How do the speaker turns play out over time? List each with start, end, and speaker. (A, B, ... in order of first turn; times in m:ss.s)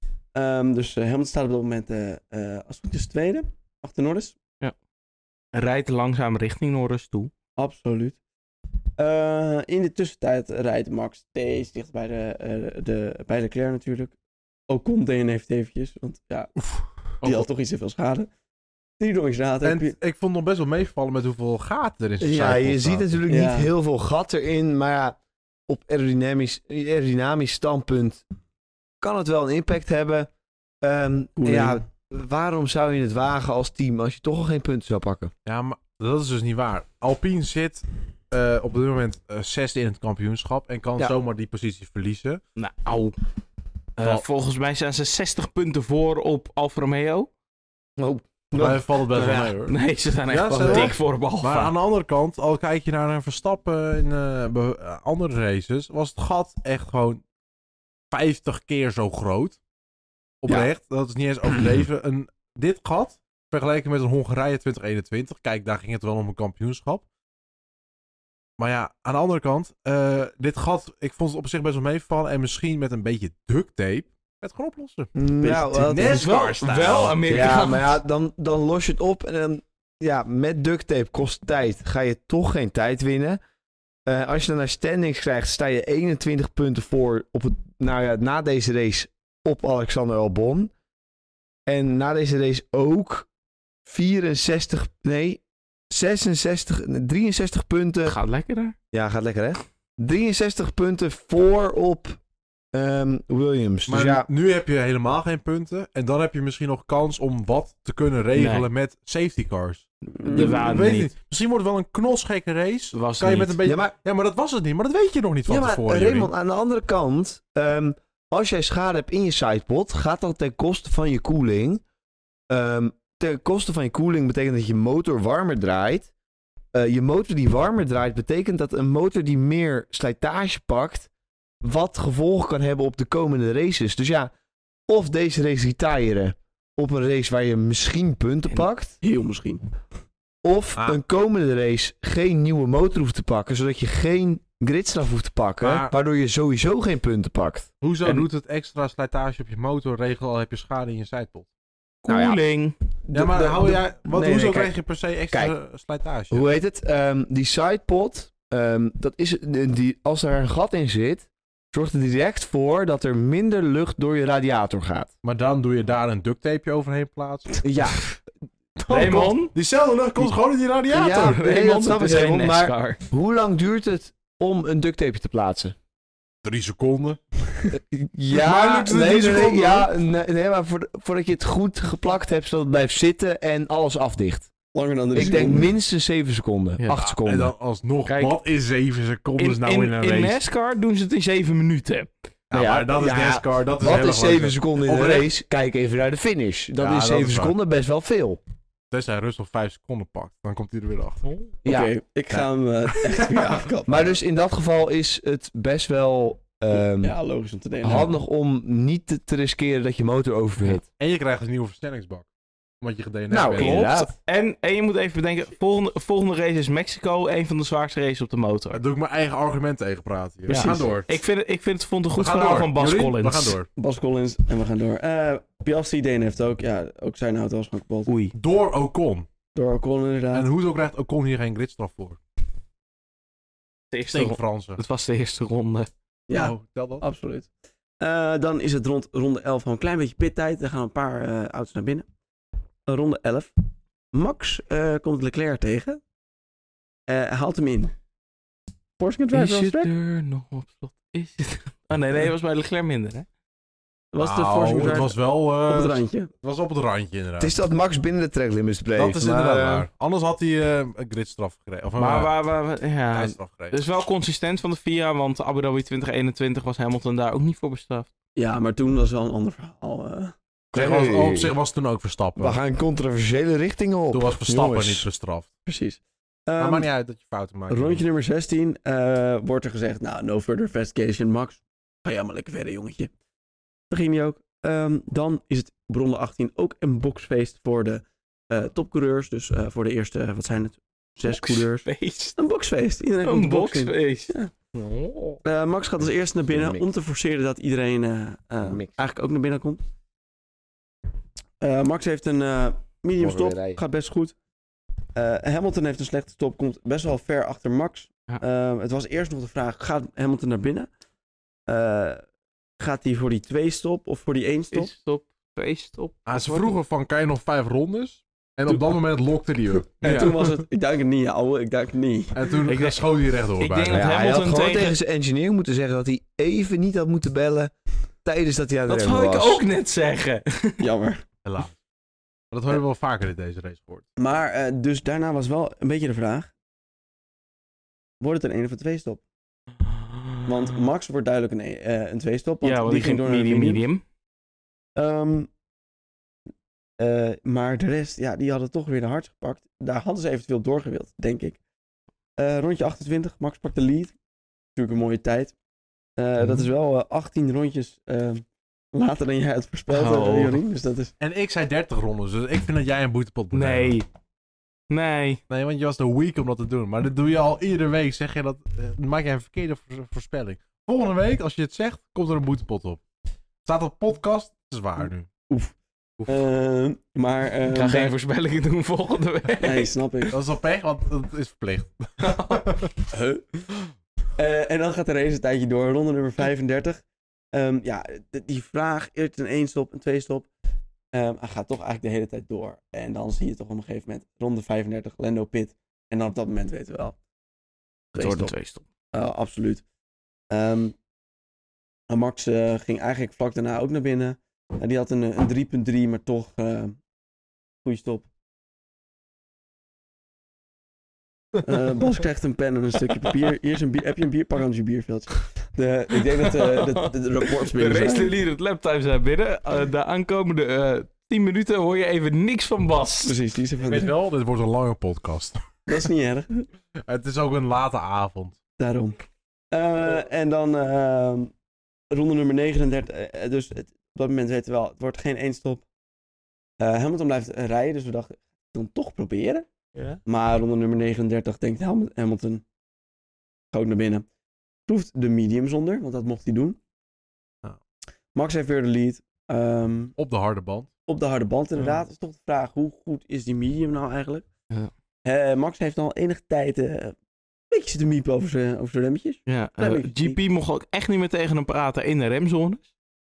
0:00.3-0:04.4 A
0:05.5-0:07.3 B
0:07.6-0:08.2 A
0:09.0-0:14.1 A
0:14.7-0:16.5 A
0:16.6-0:17.4 C
0:17.2-0:18.3 A
0:19.0-0:20.0 A
0:19.6-0:23.2 C
0:22.2-0:28.2 D
0:23.3-0:23.7 A
0:29.0-0:30.3 D
0:30.8-0:35.3 D
0:31.4-0:31.8 A
0:35.4-0:42.4 C
0:42.6-0:43.2 B
0:44.0-0:47.3 B
0:48.0-0:49.5 D
0:48.6-0:49.8 C
0:49.6-0:51.7 B
0:50.3-0:57.2 C
0:50.5-0:51.0 D
0:58.1-0:59.6 C
1:00.4-1:07.0 C
1:01.5-1:01.8 D
1:08.6-1:17.6 C
1:15.2-1:16.3 D
1:16.0-1:18.0 B
1:16.9-1:23.4 D
1:24.1-1:30.7 D
1:31.7-1:33.3 D
1:33.9-1:38.2 D
1:38.1-1:38.8 B
1:38.9-1:42.2 D
1:42.7-1:44.3 D
1:43.9-1:56.3 C
1:48.3-1:48.7 B
1:50.2-1:50.6 A
1:50.2-1:51.1 B
1:52.9-1:53.6 B
1:53.6-1:53.9 D
1:55.5-2:01.8 D
2:02.5-2:06.1 D
2:06.7-2:11.1 D
2:11.6-2:14.3 D
2:14.9-2:19.0 D
2:19.0-2:19.6 A
2:20.4-2:27.7 D
2:25.6-2:25.9 C
2:27.8-2:31.5 C
2:32.0-2:32.8 B
2:32.1-2:32.4 D
2:33.1-2:34.8 D
2:33.1-2:36.4 C
2:36.3-2:45.1 D
2:45.2-2:47.7 C
2:47.6-2:48.1 D
2:48.8-2:51.4 C
2:48.9-2:49.5 B
2:50.9-2:55.8 D
2:51.0-2:53.0 B
2:56.4-2:57.2 C
2:57.7-3:04.5 D
2:58.3-2:59.9 C
3:04.7-3:05.7 A
3:05.1-3:07.5 D
3:06.8-3:07.0 B
3:07.0-3:10.4 C
3:08.1-3:08.4 B
3:09.4-3:12.1 B
3:12.5-3:15.3 C
3:12.5-3:18.4 D
3:16.8-3:17.5 C
3:18.9-3:21.3 C
3:21.6-3:21.9 D
3:21.6-3:24.2 A
3:23.9-3:27.1 D
3:27.0-3:28.1 A
3:27.8-3:30.8 D
3:31.0-3:32.3 C
3:32.8-3:33.9 C
3:33.3-3:34.1 D
3:33.5-3:38.8 B
3:38.7-3:41.1 C
3:40.5-3:43.6 B
3:40.5-3:40.8 A
3:42.2-3:43.7 C
3:43.8-3:48.1 A
3:48.1-3:48.3 B
3:48.3-3:49.3 C
3:49.5-3:50.5 A
3:50.3-3:52.2 C
3:53.9-3:55.9 B
3:54.1-3:54.8 C
3:56.3-3:57.5 A
3:56.3-3:57.0 C
3:58.0-4:02.1 A
4:02.9-4:03.5 A
4:04.1-4:06.0 A
4:07.1-4:07.9 A
4:09.0-4:09.9 A
4:09.3-4:13.3 B
4:14.1-4:16.3 A
4:14.2-4:17.5 C
4:17.4-4:19.9 D
4:19.0-4:22.3 C
4:22.0-4:28.1 B
4:23.1-4:23.8 C
4:28.4-4:30.4 A
4:30.7-4:31.6 D
4:30.7-4:32.6 C
4:32.4-4:35.1 D
4:34.1-4:35.5 C
4:35.7-4:36.9 A
4:36.6-4:38.0 C
4:37.7-4:43.1 A
4:43.9-4:54.5 A
4:51.2-4:52.4 B
4:53.2-4:55.4 B
4:55.4-4:59.8 A
4:56.5-4:56.9 D
4:58.6-4:59.0 D
5:01.6-5:04.4 A
5:03.2-5:03.8 D
5:05.2-5:10.9 A
5:11.7-5:12.2 A
5:12.8-5:14.9 A
5:14.7-5:16.8 B
5:16.3-5:20.3 C
5:20.0-5:22.5 A
5:20.0-5:20.4 B
5:22.4-5:24.1 C
5:22.7-5:25.0 B
5:23.9-5:27.7 D
5:28.2-5:29.6 D
5:28.9-5:30.8 B
5:30.8-5:31.2 A
5:31.4-5:31.8 C
5:32.5-5:34.0 C
5:34.2-5:36.5 A
5:38.2-5:39.2 A
5:39.9-5:40.7 B
5:40.5-5:43.8 A
5:42.6-5:44.0 B
5:45.0-5:45.5 A
5:47.0-5:51.6 A
5:52.4-5:54.2 A
5:54.8-5:55.6 A
5:56.2-6:01.1 A
5:59.9-6:00.6 B
6:01.2-6:04.0 C
6:03.5-6:04.1 B
6:04.9-6:05.4 B
6:05.5-6:13.0 C
6:13.6-6:15.3 C
6:15.5-6:18.1 A
6:17.7-6:20.3 B
6:19.6-6:20.3 A
6:20.3-6:22.9 C
6:22.2-6:22.8 B
6:23.1-6:23.6 A
6:24.4-6:30.5 A
6:31.1-6:37.2 A
6:38.1-6:38.5 A
6:38.2-6:38.8 B
6:39.1-6:39.8 A
6:40.5-6:41.0 A
6:42.1-6:47.0 A
6:47.8-6:48.3 A
6:51.6-6:58.4 A
6:56.6-6:57.0 B
6:57.6-7:03.4 B
7:03.2-7:04.1 A
7:03.8-7:05.6 C
7:05.9-7:06.5 A
7:07.1-7:08.6 C
7:08.8-7:09.2 A
7:09.7-7:11.5 A
7:12.1-7:15.8 A
7:16.8-7:19.7 A
7:20.2-7:22.6 A
7:23.7-7:24.3 A
7:24.9-7:26.8 A
7:28.3-7:30.2 A
7:30.2-7:30.9 C
7:31.1-7:34.5 A
7:35.2-7:37.2 A
7:37.7-7:40.4 A
7:39.5-7:42.9 B